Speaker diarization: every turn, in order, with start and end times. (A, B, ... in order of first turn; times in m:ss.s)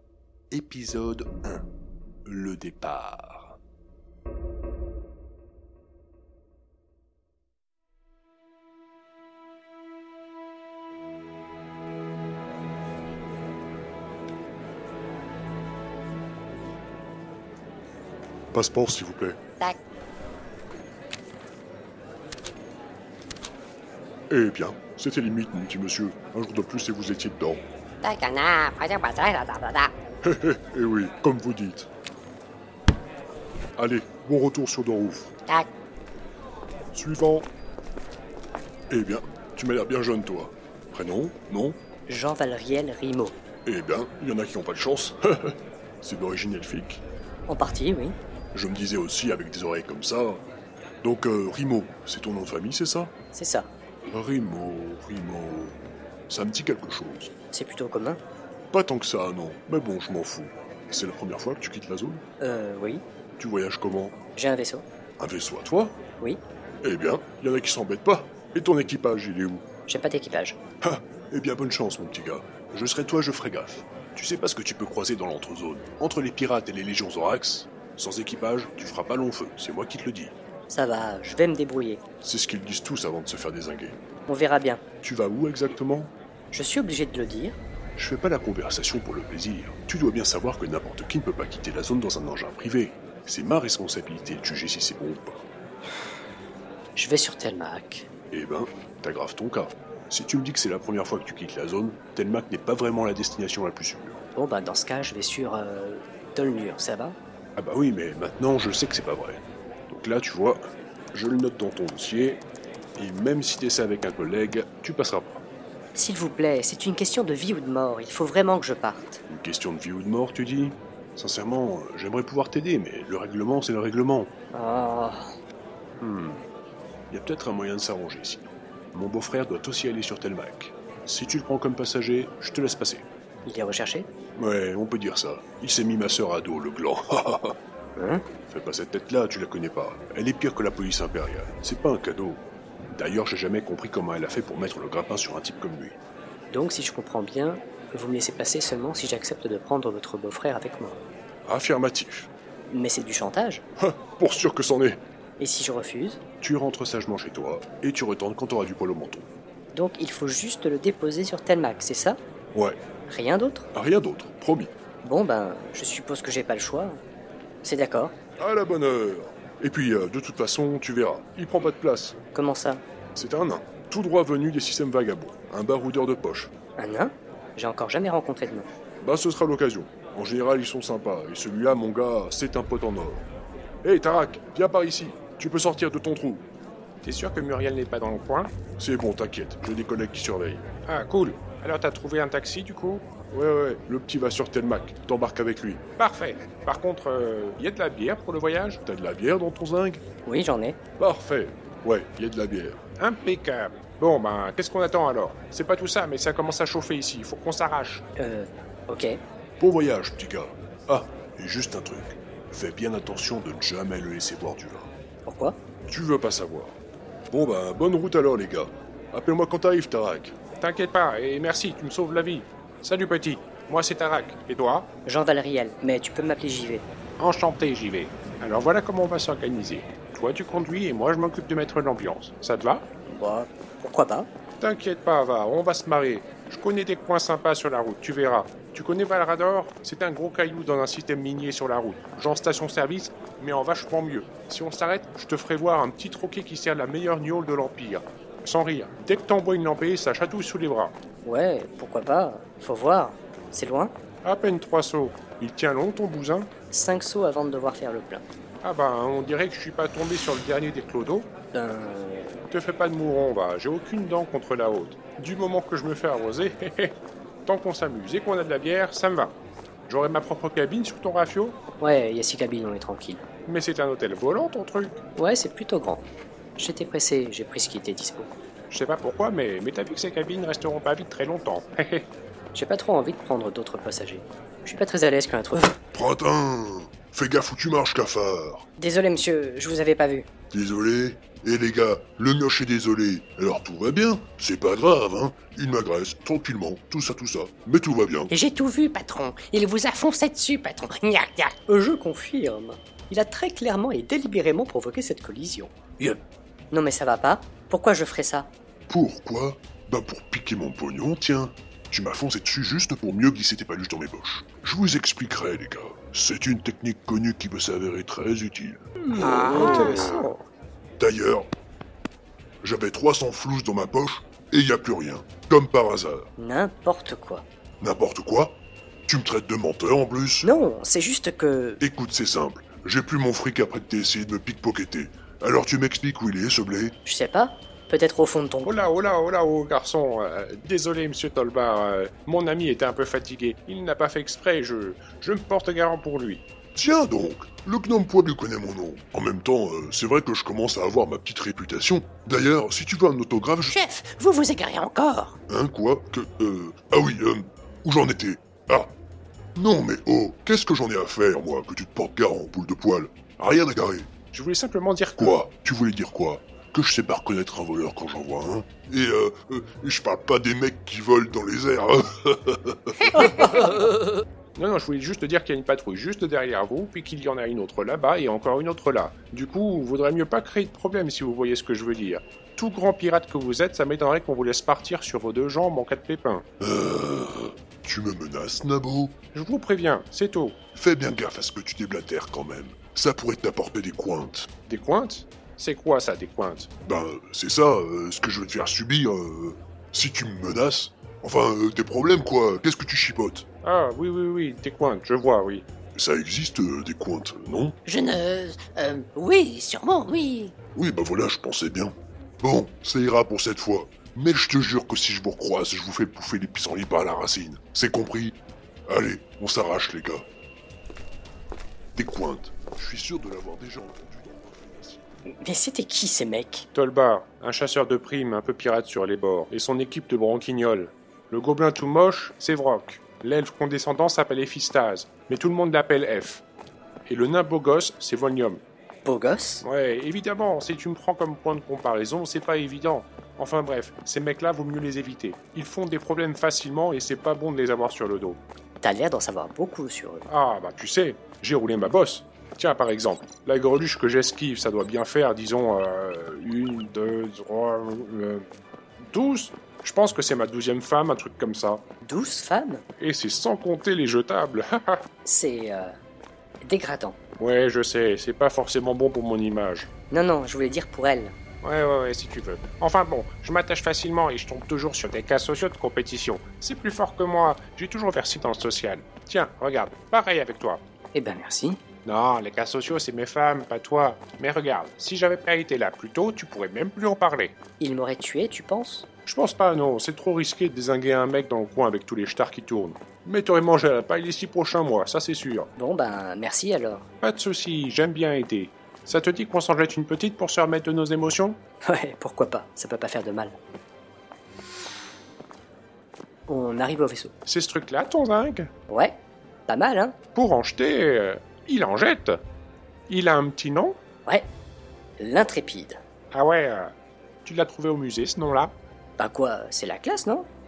0:00.5-0:01.7 A
0:02.3-0:03.6 A
0:18.5-0:19.4 A
0:24.3-0:27.6 A
0:28.0-0:29.9 B
0:30.2-0:31.9 A
0:33.8-0:35.3 A
0:36.9-0:37.5 A
0:38.9-0:41.8 A
0:42.1-0:43.4 C
0:43.7-0:47.0 A
0:47.5-0:48.2 C
0:48.5-0:50.4 A
0:51.0-0:53.1 A
0:53.3-0:53.7 C
0:54.1-0:55.8 A
0:56.3-0:57.3 A
0:57.5-0:58.2 C
0:58.7-1:02.2 A
1:02.4-1:03.0 C
1:03.4-1:04.2 A
1:04.4-1:04.8 C
1:05.2-1:06.0 A
1:06.8-1:09.6 A
1:09.9-1:10.6 C
1:10.8-1:20.3 A
1:20.7-1:22.0 C
1:22.2-1:24.0 A
1:24.3-1:24.8 C
1:25.0-1:26.1 A
1:26.5-1:27.6 C
1:28.0-1:35.5 A
1:37.0-1:38.1 C
1:38.3-1:44.2 A
1:44.4-1:47.2 C
1:47.6-1:52.4 A
1:53.0-1:55.4 A
1:56.0-1:59.2 C
1:59.3-2:04.3 A
2:04.5-2:05.4 C
2:06.0-2:06.5 A
2:07.1-2:13.0 A
2:13.4-2:14.1 C
2:14.4-2:17.6 A
2:18.0-2:18.3 C
2:18.5-2:26.0 A
2:26.5-2:31.0 C
2:31.4-2:32.3 A
2:32.7-2:33.6 C
2:33.8-2:35.0 A
2:35.4-2:36.2 C
2:36.4-2:39.3 A
2:39.7-2:42.2 C
2:42.5-2:42.8 A
2:43.1-2:43.7 C
2:43.7-2:44.7 A
2:45.0-2:47.0 C
2:47.6-2:48.2 C
2:48.4-2:52.2 A
2:52.3-2:52.8 C
2:53.2-2:56.5 A
2:56.8-2:58.7 C
2:59.0-3:03.2 A
3:03.8-3:06.5 A
3:07.0-3:08.5 D
3:08.8-3:10.7 A
3:10.9-3:13.1 D
3:13.3-3:15.8 A
3:16.0-3:18.8 D
3:18.8-3:20.0 A
3:20.2-3:20.8 C
3:21.0-3:22.8 A
3:23.0-3:28.0 D
3:28.2-3:29.2 C
3:29.6-3:34.9 A
3:35.3-3:35.6 C
3:35.9-3:40.4 A
3:40.6-3:44.9 D
3:45.1-3:46.9 C
3:47.2-3:52.9 D
3:53.1-3:54.3 C
3:54.6-4:11.0 D
4:11.2-4:14.0 C
4:14.2-4:16.5 D
4:16.7-4:18.2 C
4:18.6-4:21.3 D
4:21.5-4:22.4 C
4:22.5-4:31.6 D
4:31.8-4:33.2 C
4:33.5-4:35.0 D
4:35.2-4:38.3 C
4:38.7-4:42.1 D
4:42.5-4:45.8 C
4:45.9-4:48.6 A
4:48.8-4:50.3 C
4:50.5-4:58.3 A
4:58.3-5:01.6 B
5:01.7-5:05.7 C
5:06.7-5:08.5 C
5:08.9-5:19.9 A
5:19.1-5:20.3 C
5:19.3-5:20.2 B
5:19.3-5:20.2 D
5:21.0-5:21.5 A
5:22.6-5:26.3 A
5:26.4-5:27.5 C
5:27.8-5:30.5 A
5:30.4-5:31.8 C
5:31.8-5:37.0 A
5:37.0-5:38.7 C
5:38.6-5:46.4 D
5:46.7-5:53.8 A
5:53.7-5:55.4 B
5:55.5-5:58.9 A
5:59.6-6:04.1 A
6:04.3-6:05.4 D
6:05.2-6:13.3 A
6:14.6-6:26.4 D
6:26.6-6:29.2 A
6:29.3-6:30.6 D
6:30.8-6:34.5 A
6:34.7-6:36.7 D
6:36.8-6:43.5 A
6:43.6-6:45.6 D
6:46.0-6:47.8 A
6:47.9-6:50.5 B
6:50.8-6:58.4 A
6:58.9-7:00.3 A
7:02.0-7:05.0 A
7:05.3-7:06.7 C
7:06.8-7:16.4 D
7:17.1-7:18.6 D
7:19.0-7:19.6 C
7:19.6-7:28.4 D
7:28.8-7:30.3 C
7:30.3-7:38.5 D
7:39.0-7:41.8 D
7:42.0-7:42.8 C
7:43.0-7:45.0 D
7:45.2-7:46.0 C
7:46.6-7:47.2 C
7:47.4-7:49.9 D
7:50.1-7:51.4 C
7:51.6-8:00.8 D
8:01.1-8:01.8 C
8:02.0-8:07.6 D
8:07.8-8:09.1 C
8:09.3-8:15.7 D
8:15.8-8:17.1 C
8:17.2-8:21.6 D
8:21.8-8:23.6 C
8:26.5-8:27.3 C
8:27.5-8:28.7 D
8:28.9-8:30.2 C
8:30.4-8:32.4 D
8:33.1-8:34.0 D
8:35.2-8:36.0 C
8:36.3-8:38.8 D
8:39.2-8:40.5 C